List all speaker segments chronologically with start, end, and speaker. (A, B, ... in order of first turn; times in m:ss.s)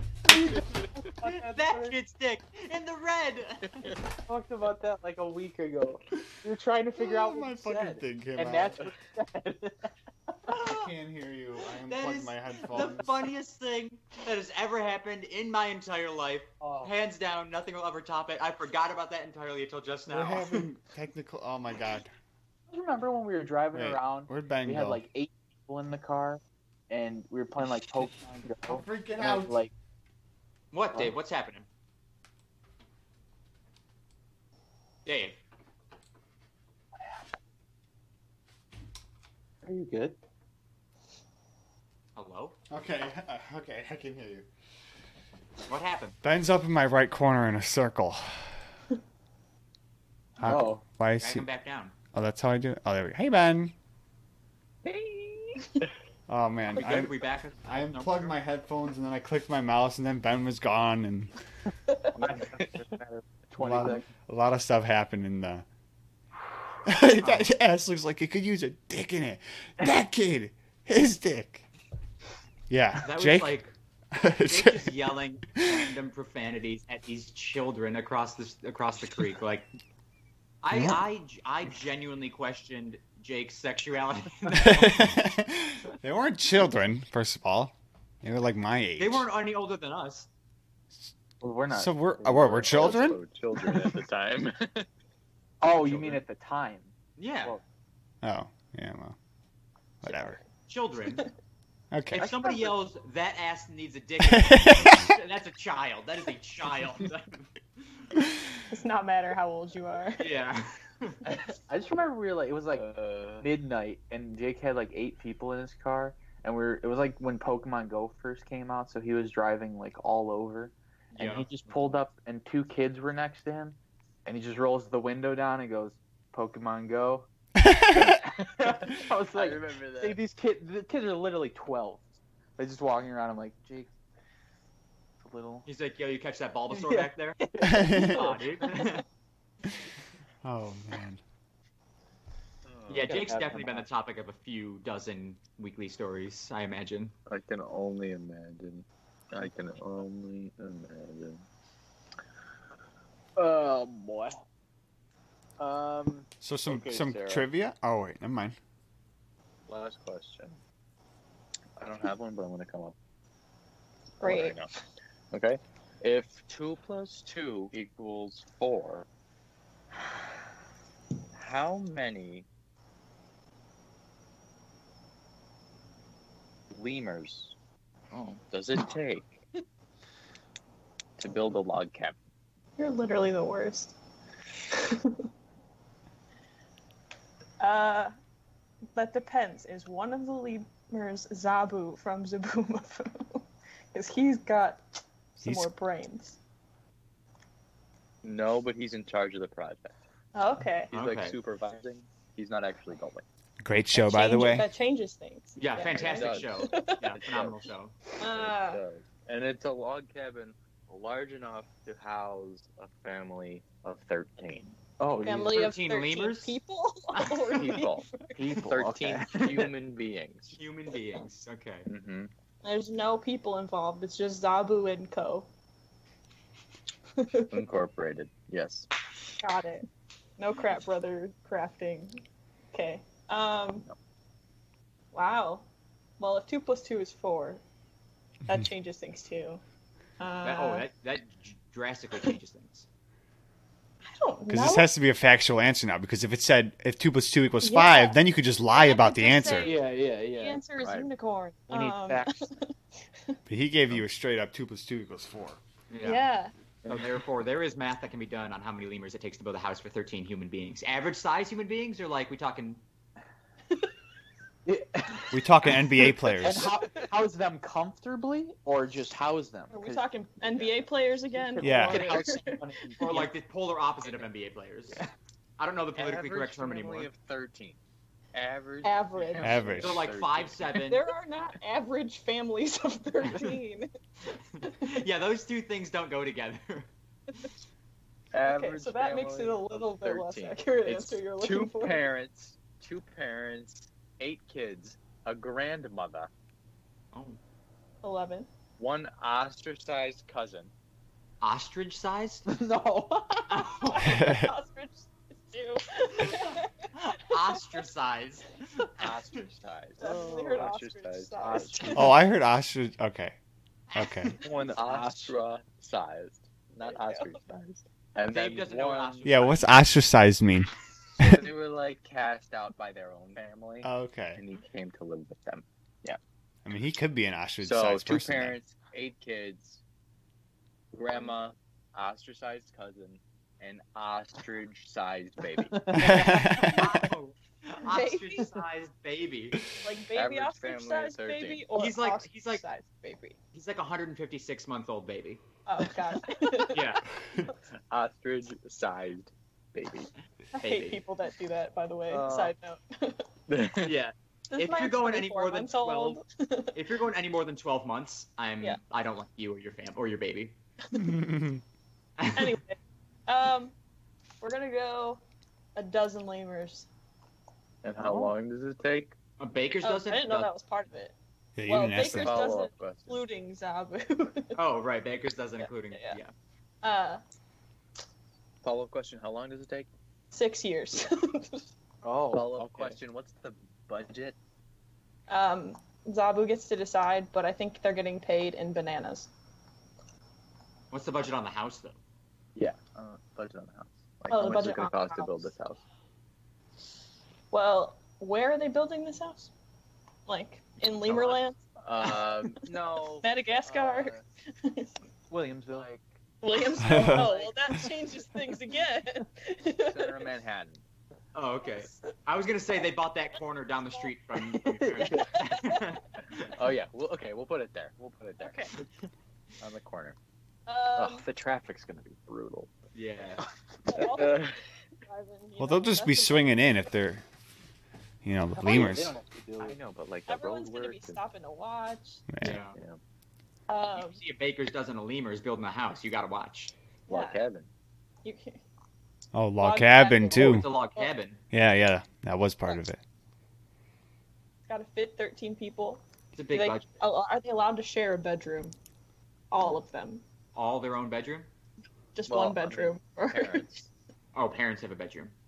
0:00.3-0:01.9 A
0:01.2-0:03.9 B
0:04.2-0:10.3 A
0:07.0-0:08.9 C
0:10.5-0:10.9 B
0:10.6-0:13.2 C
0:11.8-0:20.7 B
0:16.6-0:16.9 A
0:20.1-0:22.1 C
0:22.7-0:29.7 A
0:23.7-0:25.0 C
0:28.6-0:29.6 C
0:30.7-0:31.6 B
0:35.0-0:35.3 B
0:39.6-0:40.2 A
0:42.2-0:42.6 B
0:42.7-0:44.5 C
0:45.6-0:46.2 B
0:46.2-0:48.5 C
0:50.4-0:51.4 C
0:50.4-0:50.8 A
0:51.2-0:51.9 B
0:52.1-0:53.7 C
0:54.8-0:55.7 A
0:56.3-0:57.1 C
0:56.7-0:58.4 B
0:57.6-1:01.3 C
1:02.1-1:04.1 A
1:03.6-1:05.6 C
1:06.9-1:11.6 C
1:07.2-1:07.5 B
1:12.7-1:13.6 C
1:13.0-1:13.7 B
1:14.1-1:14.9 C
1:14.4-1:19.7 B
1:15.6-1:15.8 C
1:20.6-1:25.1 B
1:20.7-1:21.0 C
1:24.5-1:29.3 C
1:29.0-1:30.3 B
1:31.4-1:32.0 A
1:31.7-1:33.2 C
1:32.2-1:34.9 D
1:32.6-1:32.9 A
1:35.6-1:36.9 A
1:35.7-1:36.2 D
1:37.2-1:37.6 B
1:38.2-1:39.2 C
1:40.0-1:40.4 C
1:40.7-1:41.3 B
1:41.9-1:42.3 C
1:42.1-1:48.1 B
1:44.2-1:45.1 C
1:48.7-1:50.3 E
1:50.2-1:51.2 B
1:51.5-1:52.9 A
1:52.7-1:53.5 D
1:53.4-2:07.3 A
2:01.2-2:02.0 B
2:07.6-2:08.2 C
2:07.9-2:13.9 A
2:08.6-2:10.2 D
2:15.2-2:15.7 A
2:15.6-2:17.4 B
2:16.7-2:18.9 A
2:17.6-2:18.3 C
2:17.9-2:19.0 B
2:20.4-2:21.2 C
2:22.6-2:23.3 D
2:22.9-2:27.1 B
2:23.0-2:23.8 A
2:27.3-2:31.4 D
2:33.4-2:34.3 A
2:35.6-2:37.5 D
2:36.4-2:38.6 C
2:39.7-2:40.6 D
2:41.8-2:43.0 D
2:44.2-2:44.6 E
2:44.2-2:44.7 D
2:45.3-2:49.0 D
2:51.4-2:52.4 D
2:56.7-2:57.5 D
2:58.1-2:59.4 D
3:01.2-3:02.2 D
3:02.8-3:03.9 E
3:04.7-3:05.2 E
3:07.6-3:08.1 E
3:08.9-3:14.8 E
3:15.3-3:16.4 E
3:15.4-3:15.7 C
3:18.2-3:20.0 D
3:20.3-3:20.9 E
3:20.9-3:23.2 D
3:20.9-3:21.4 B
3:23.6-3:24.7 C
3:23.9-3:27.1 E
3:25.6-3:28.0 B
3:25.8-3:27.6 D
3:28.2-3:28.8 E
3:28.2-3:34.8 D
3:35.0-3:35.7 A
3:35.2-3:38.4 E
3:35.5-3:36.6 B
3:37.1-3:37.8 B
3:37.5-3:40.6 D
3:38.4-3:39.7 A
3:40.6-3:41.9 B
3:41.9-3:42.3 D
3:42.6-3:45.5 E
3:47.2-3:47.5 E
3:47.5-3:48.9 D
3:49.4-3:49.9 E
3:50.4-3:52.2 E
3:52.7-3:53.9 E
3:55.1-3:55.6 E
3:56.2-3:57.6 E
3:58.4-3:59.6 E
4:00.2-4:00.9 E
4:00.4-4:02.9 B
4:04.1-4:04.9 E
4:04.5-4:09.7 C
4:07.6-4:08.2 E
4:08.7-4:12.7 E
4:09.6-4:10.6 A
4:10.8-4:11.1 D
4:11.7-4:12.4 A
4:13.5-4:15.6 C
4:15.9-4:16.2 B
4:16.0-4:16.5 E
4:16.9-4:22.8 B
4:24.6-4:30.7 A
4:25.3-4:26.7 C
4:29.7-4:32.6 E
4:31.3-4:33.3 A
4:31.6-4:32.1 C
4:33.0-4:37.1 B
4:35.9-4:37.8 D
4:38.3-4:40.7 D
4:38.8-4:39.7 E
4:39.4-4:40.1 C
4:39.8-4:41.1 B
4:40.8-4:43.9 E
4:43.2-4:43.6 B
4:44.5-4:46.9 B
4:44.6-4:44.9 E
4:48.3-4:56.3 D
4:48.4-4:52.0 E
4:57.1-4:57.4 B
4:58.0-4:58.5 E
4:58.8-5:00.7 D
5:01.4-5:02.4 B
5:02.5-5:03.5 A
5:03.5-5:04.3 B
5:03.9-5:07.6 E
5:04.0-5:04.5 C
5:06.2-5:09.4 B
5:09.0-5:12.1 D
5:10.0-5:12.1 E
5:10.0-5:10.7 A
5:11.4-5:12.1 A
5:11.9-5:13.4 C
5:13.9-5:14.4 B
5:13.9-5:14.4 C
5:14.4-5:15.4 A
5:14.6-5:19.3 D
5:16.8-5:17.4 E
5:18.2-5:19.8 B
5:19.2-5:20.7 C
5:21.2-5:26.2 D
5:23.8-5:24.4 C
5:26.6-5:28.6 C
5:27.6-5:29.8 D
5:30.9-5:35.8 D
5:35.7-5:36.9 A
5:35.9-5:36.9 C
5:36.0-5:39.6 B
5:37.8-5:38.6 E
5:39.8-5:43.4 E
5:40.1-5:41.7 D
5:41.7-5:42.6 B
5:43.5-5:45.4 B
5:45.6-5:47.5 E
5:46.7-5:47.0 B
5:47.9-5:50.1 D
5:50.5-5:53.3 E
5:50.6-5:51.0 B
5:52.1-5:52.5 D
5:53.5-5:53.9 D
5:53.8-5:56.2 B
5:54.5-5:56.8 E
5:56.7-6:00.6 B
6:00.9-6:01.2 E
6:00.9-6:01.6 C
6:02.2-6:02.6 B
6:02.3-6:03.7 E
6:04.4-6:05.2 E
6:05.7-6:06.9 E
6:07.8-6:09.1 D
6:08.0-6:08.3 A
6:09.4-6:10.5 B
6:09.8-6:11.1 E
6:11.6-6:12.4 C
6:11.7-6:14.6 E
6:12.2-6:13.2 D
6:14.6-6:16.3 B
6:15.9-6:16.2 E
6:16.8-6:17.2 E
6:18.6-6:19.9 D
6:20.3-6:21.7 E
6:22.0-6:23.0 A
6:22.3-6:24.4 D
6:25.3-6:29.3 E
6:30.9-6:32.0 B
6:32.6-6:35.8 D
6:34.3-6:35.5 E
6:37.5-6:39.5 E
6:40.2-6:42.5 E
6:41.0-6:44.2 D
6:43.2-6:44.9 E
6:45.3-6:46.0 A
6:46.4-6:50.3 E
6:46.8-6:47.3 C
6:46.9-6:47.5 A
6:47.0-6:47.5 D
6:49.8-6:50.8 D
6:51.3-6:56.5 B
6:54.5-6:55.3 A
6:55.1-6:56.0 E
6:56.5-6:58.7 D
6:58.4-6:58.7 E
6:59.6-7:00.2 D
7:00.7-7:01.2 E
7:00.9-7:02.7 D
7:02.9-7:03.4 B
7:03.9-7:06.7 E
7:03.9-7:04.6 D
7:05.6-7:07.2 C
7:08.2-7:09.1 C
7:08.5-7:09.8 A
7:09.6-7:11.2 D
7:10.3-7:12.5 E
7:12.3-7:12.6 C
7:12.4-7:12.8 B
7:12.7-7:13.0 D
7:13.7-7:14.2 E
7:13.9-7:16.7 B
7:17.1-7:17.4 E
7:17.1-7:17.7 D
7:18.2-7:18.6 E
7:19.3-7:20.7 C
7:19.6-7:21.1 E
7:20.3-7:21.4 B
7:21.5-7:23.0 C
7:24.7-7:28.7 E
7:26.3-7:26.9 B
7:29.5-7:30.2 E
7:30.5-7:31.5 B
7:32.1-7:33.7 E
7:32.3-7:33.9 D
7:34.3-7:35.3 B